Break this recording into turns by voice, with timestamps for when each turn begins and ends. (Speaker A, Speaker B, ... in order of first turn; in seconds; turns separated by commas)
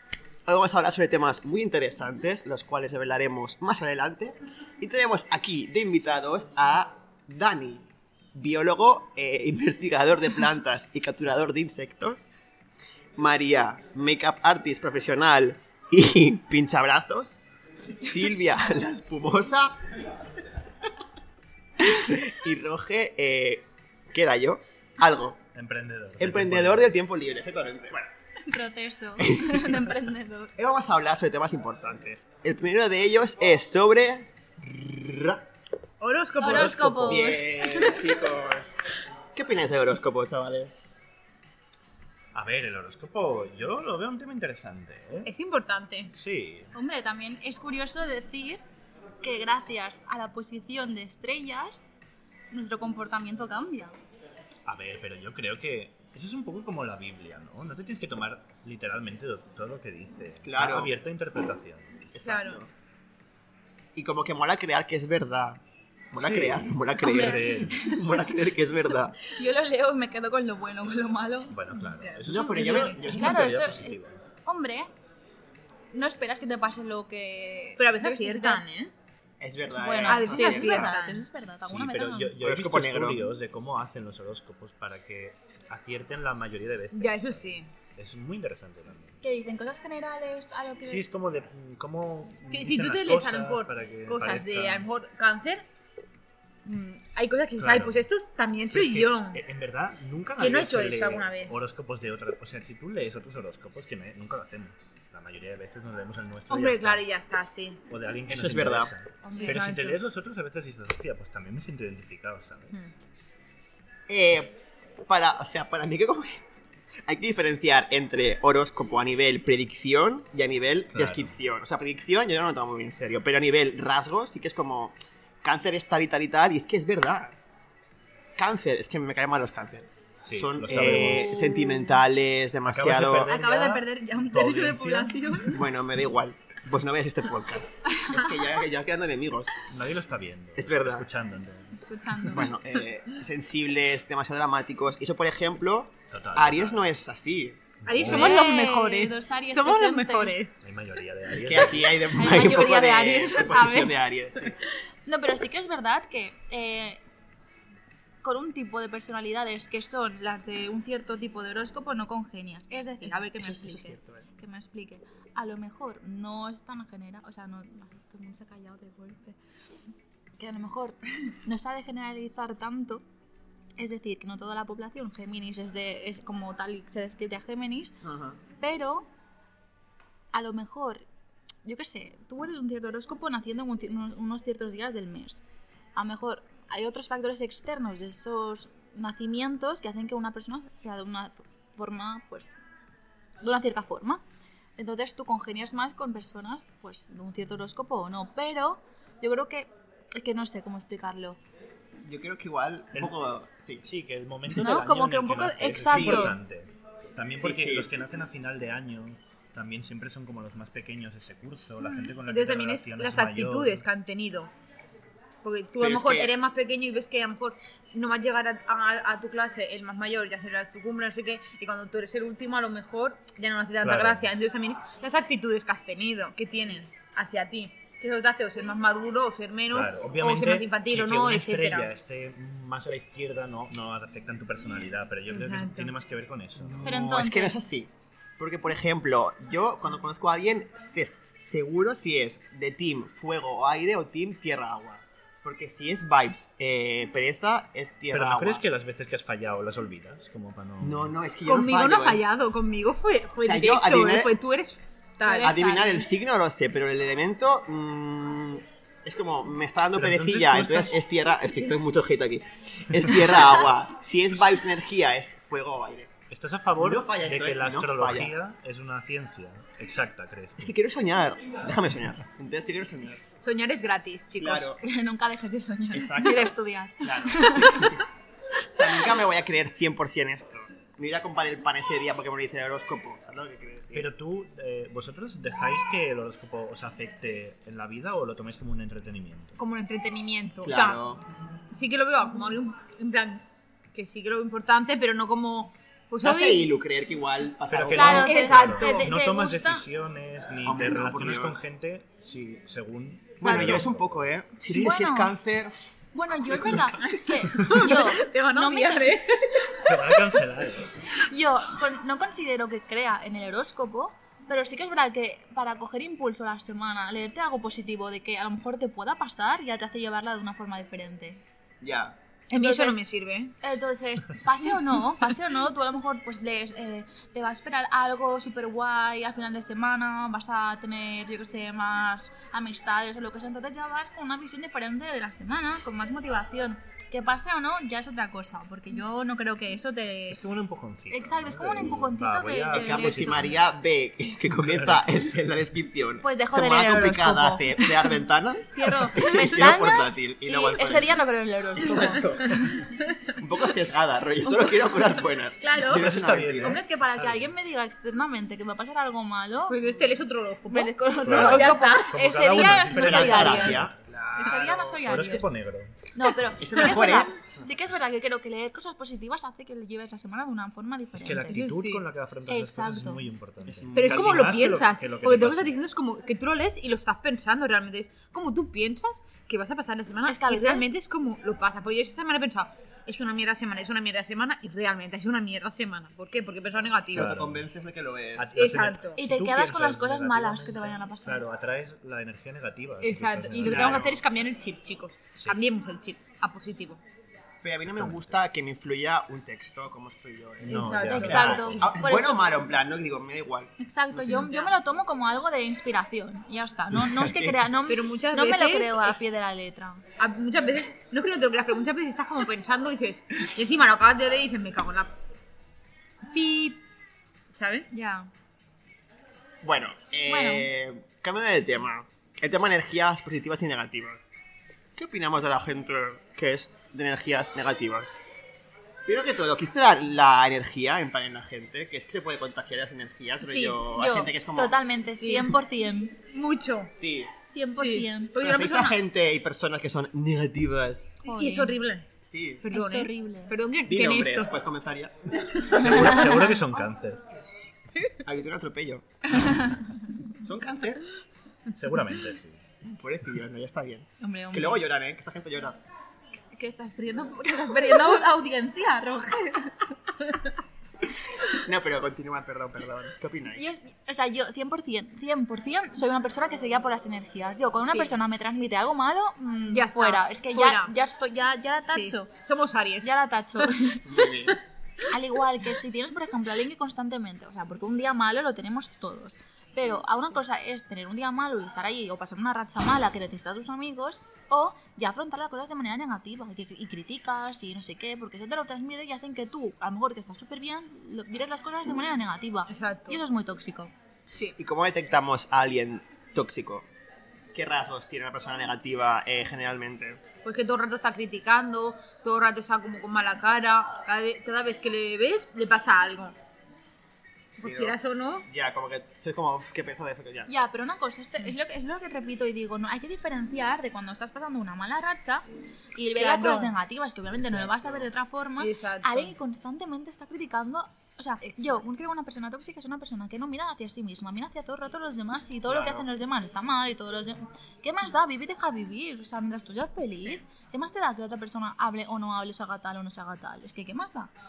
Speaker A: 0.5-12.3, Speaker A: 13.2-17.4, Speaker A: 17.9-19.9, Speaker A: 21.8-25.4, Speaker B: 25.5-26.9, Speaker A: 26.2-28.1, Speaker C: 28.5-30.5, Speaker A: 29.2-29.9, Speaker A: 30.6-35.4, Speaker D: 36.0-37.1, Speaker C: 36.4-38.0, Speaker B: 36.5-37.3, Speaker A: 37.0-38.8, Speaker A: 39.3-40.8, Speaker B: 42.3-45.3, Speaker D: 45.2-46.1, Speaker B: 46.1-46.7, Speaker C: 46.7-48.6, Speaker C: 49.2-51.9, Speaker C: 52.5-54.0, Speaker B: 54.6-62.1, Speaker A: 60.4-60.9, Speaker A: 62.1-62.7, Speaker D: 62.2-62.6, Speaker A: 63.9-65.6, Speaker A: 66.1-69.2, Speaker B: 66.2-67.8, Speaker C: 67.0-68.0, Speaker C: 69.2-71.6, Speaker B: 71.5-74.2, Speaker D: 72.0-72.9, Speaker A: 72.2-73.8, Speaker C: 72.6-74.9, Speaker C: 75.9-78.6, Speaker D: 77.8-78.9, Speaker A: 79.4-81.0, Speaker C: 79.7-82.3, Speaker D: 80.0-81.2, Speaker B: 81.6-89.2, Speaker A: 82.4-83.3, Speaker D: 86.9-87.7, Speaker C: 89.2-91.0, Speaker B: 90.8-94.9, Speaker D: 92.5-95.6, Speaker D: 96.6-99.4, Speaker B: 97.6-98.0, Speaker B: 98.7-107.1, Speaker D: 100.4-101.5, Speaker D: 106.5-107.8, Speaker B: 107.9-112.9, Speaker A: 108.3-108.9, Speaker D: 109.2-110.0, Speaker C: 109.3-109.7, Speaker A: 114.1-116.4, Speaker A: 117.0-127.4, Speaker B: 120.9-121.3, Speaker A: 128.3-133.3, Speaker B: 130.2-131.4, Speaker C: 130.9-131.9, Speaker B: 132.7-135.3, Speaker C: 133.2-135.6, Speaker A: 135.5-139.6, Speaker C: 137.9-138.2, Speaker B: 139.7-141.8, Speaker A: 140.6-141.1, Speaker C: 141.8-142.5, Speaker A: 142.2-147.8, Speaker B: 146.1-146.9, Speaker B: 147.8-148.5, Speaker D: 147.8-150.5, Speaker C: 148.0-150.5, Speaker B: 150.6-152.1, Speaker A: 151.3-154.6, Speaker C: 152.1-153.9, Speaker C: 155.1-157.0, Speaker C: 158.2-169.4, Speaker A: 163.3-164.2, Speaker C: 170.4-173.0, Speaker C: 173.8-177.9, Speaker A: 178.0-178.4, Speaker C: 178.6-179.1, Speaker C: 180.3-181.0, Speaker C: 181.6-185.4, Speaker C: 185.9-192.6, Speaker C: 193.4-194.2, Speaker C: 194.8-201.4, Speaker A: 202.0-203.9, Speaker B: 203.8-213.8, Speaker C: 204.5-206.3, Speaker A: 205.8-206.3, Speaker A: 207.3-207.9, Speaker D: 211.8-214.5, Speaker D: 215.4-231.9, Speaker A: 215.8-216.3, Speaker B: 223.8-224.3, Speaker B: 229.7-236.9, Speaker D: 235.3-235.9, Speaker A: 236.6-248.6, Speaker C: 236.8-237.6, Speaker B: 248.1-251.1, Speaker A: 250.8-252.2, Speaker D: 251.4-255.5, Speaker A: 253.4-254.4, Speaker C: 255.2-256.1, Speaker A: 255.4-266.1, Speaker B: 259.9-261.0, Speaker B: 266.3-270.7, Speaker A: 266.8-268.3, Speaker A: 270.6-273.2, Speaker D: 273.4-274.8, Speaker A: 274.4-274.8, Speaker C: 274.8-278.0, Speaker A: 275.9-278.1, Speaker A: 278.7-284.1, Speaker B: 283.9-289.6, Speaker D: 289.6-291.0, Speaker A: 290.6-291.2, Speaker D: 291.7-296.7, Speaker A: 296.2-298.7, Speaker B: 297.7-304.9, Speaker C: 297.9-299.9, Speaker D: 298.2-299.1, Speaker A: 300.6-301.6, Speaker A: 303.4-305.7, Speaker D: 303.4-303.8, Speaker C: 304.6-305.3, Speaker C: 306.1-309.2, Speaker A: 306.3-307.6, Speaker D: 307.6-310.4, Speaker B: 309.8-311.0, Speaker C: 311.2-321.4, Speaker A: 321.8-322.2, Speaker D: 322.5-323.5, Speaker C: 322.5-323.0, Speaker C: 323.6-340.4, Speaker B: 340.3-343.6, Speaker C: 341.1-343.5, Speaker A: 342.7-351.2, Speaker B: 344.6-345.1, Speaker C: 346.2-348.1, Speaker C: 348.7-352.6, Speaker A: 351.7-352.7, Speaker D: 351.9-353.3, Speaker A: 353.4-356.8, Speaker D: 355.6-356.0, Speaker B: 355.8-357.5, Speaker C: 356.6-359.8, Speaker D: 359.7-362.1, Speaker C: 360.7-363.8, Speaker B: 361.2-365.9, Speaker A: 362.9-365.0, Speaker C: 364.4-365.5, Speaker C: 366.1-371.6, Speaker A: 366.6-367.7, Speaker B: 371.1-375.8, Speaker D: 371.5-372.0, Speaker C: 372.5-373.2, Speaker A: 373.6-374.5, Speaker D: 373.9-387.3, Speaker C: 380.3-380.9, Speaker B: 387.1-387.7, Speaker A: 387.1-388.8, Speaker B: 388.4-394.2, Speaker D: 388.5-389.2, Speaker C: 389.1-391.4, Speaker D: 393.0-397.0, Speaker A: 393.6-394.2, Speaker A: 397.6-404.5, Speaker B: 397.8-398.4, Speaker B: 400.6-401.9, Speaker D: 400.6-401.5, Speaker C: 401.1-402.6, Speaker C: 403.8-410.0, Speaker D: 404.3-404.7, Speaker B: 407.0-407.6, Speaker D: 407.9-409.3, Speaker D: 410.2-415.2, Speaker D: 416.3-416.8, Speaker D: 417.5-417.9, Speaker C: 417.9-418.3, Speaker A: 419.6-424.4, Speaker C: 420.2-420.7, Speaker A: 424.9-428.2, Speaker A: 429.0-434.8, Speaker D: 433.4-433.8, Speaker C: 433.9-436.2, Speaker D: 435.2-435.6, Speaker D: 436.3-436.9, Speaker A: 436.9-437.3, Speaker C: 437.5-438.4, Speaker D: 437.7-439.0, Speaker A: 438.4-441.2, Speaker D: 441.2-442.1, Speaker C: 441.2-441.8, Speaker A: 442.2-442.6, Speaker D: 442.6-444.5, Speaker C: 442.7-443.5, Speaker A: 443.9-446.4, Speaker B: 445.7-447.2, Speaker D: 445.8-446.7, Speaker A: 448.2-449.1, Speaker C: 449.3-450.0, Speaker A: 450.4-451.1, Speaker B: 451.7-452.6, Speaker A: 452.8-455.8, Speaker C: 454.2-454.9, Speaker C: 456.5-459.9, Speaker A: 461.3-463.6, Speaker C: 463.5-472.3, Speaker D: 467.9-468.1, Speaker D: 469.7-470.9, Speaker D: 471.9-473.7, Speaker C: 473.0-474.1, Speaker A: 474.0-474.6, Speaker D: 474.3-474.6, Speaker C: 475.1-493.9, Speaker D: 492.7-493.2, Speaker A: 494.6-496.9, Speaker A: 497.5-500.2, Speaker D: 500.4-506.3, Speaker A: 507.6-510.5, Speaker D: 507.6-508.5, Speaker C: 510.4-534.3, Speaker D: 516.1-516.7, Speaker A: 517.3-518.1, Speaker D: 518.6-519.3, Speaker D: 521.4-521.8, Speaker A: 525.7-526.1